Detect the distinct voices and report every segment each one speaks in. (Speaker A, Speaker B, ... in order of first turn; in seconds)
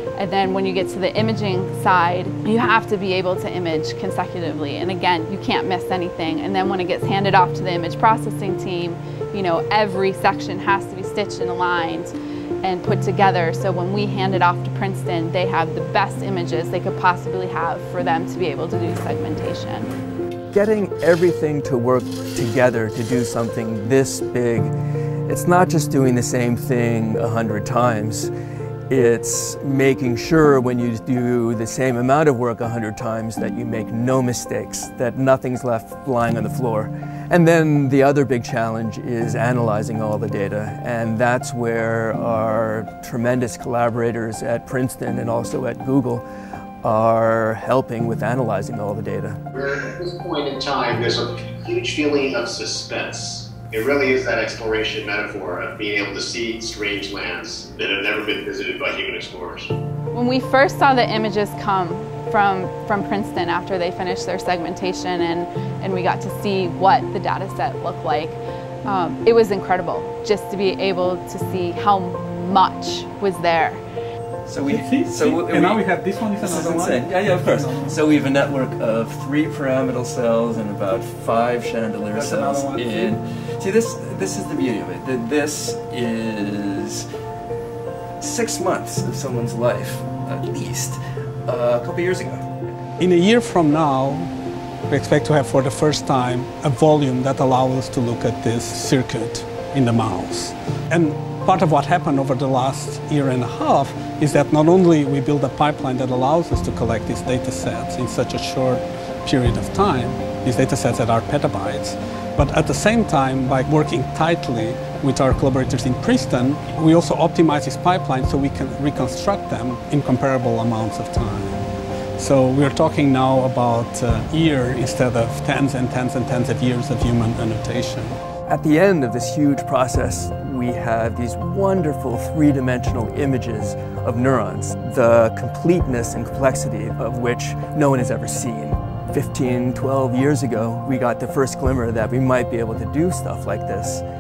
Speaker A: 0.2-19.9, 60.1-73.8
Speaker B: 20.5-24.7, 25.3-28.3, 28.9-46.2, 46.8-49.4, 74.5-75.8, 76.4-87.1, 88.2-92.5, 128.5-144.0
Speaker C: 49.5-59.7
Speaker D: 74.6-78.0, 82.1-83.2, 93.0-94.3, 94.9-121.7, 122.2-128.2